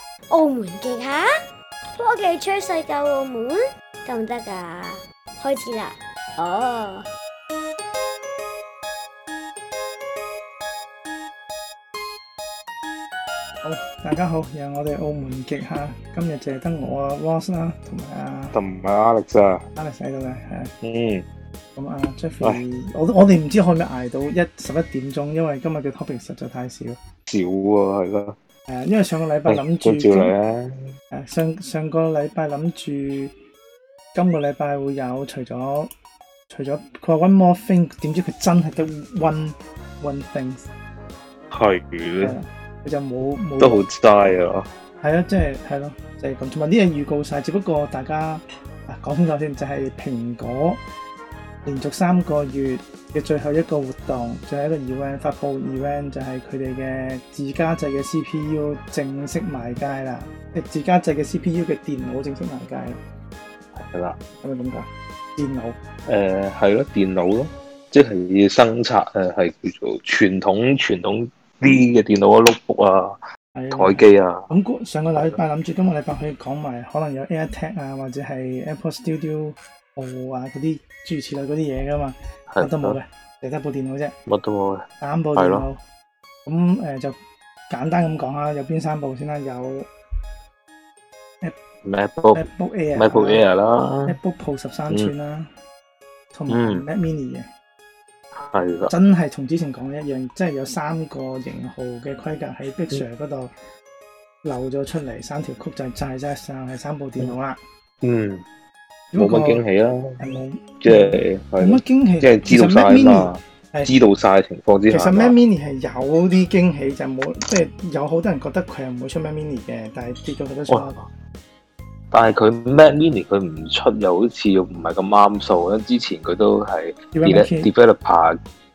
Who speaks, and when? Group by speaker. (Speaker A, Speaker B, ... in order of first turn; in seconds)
Speaker A: 0.3-1.3, 1.9-7.1
Speaker B: 13.6-18.6, 19.8-20.7, 21.8-27.0, 28.7-30.3, 31.1-33.3, 34.1-35.9, 36.5-40.7, 42.2-43.8, 45.0-50.8, 51.6-63.0, 64.4-65.8, 73.5-84.2, 85.0-85.8, 86.4-87.2, 87.7-89.9, 92.3-93.4, 94.1-95.5, 96.3-97.5, 98.9-103.5, 104.4-107.6, 109.1-109.6, 110.2-114.0, 114.9-121.0, 127.1-127.7
Speaker C: 18.5-19.6, 20.8-21.2, 27.3-28.4, 29.5-30.9, 41.5-42.4, 43.6-44.7, 63.7-64.2, 66.0-73.2, 73.7-74.5, 82.5-83.0, 84.3-84.8, 85.3-85.7, 91.8-94.2, 96.5-96.8, 98.3-98.9, 108.0-108.4, 109.2-110.2, 110.8-115.3, 120.7-121.0, 122.1-128.4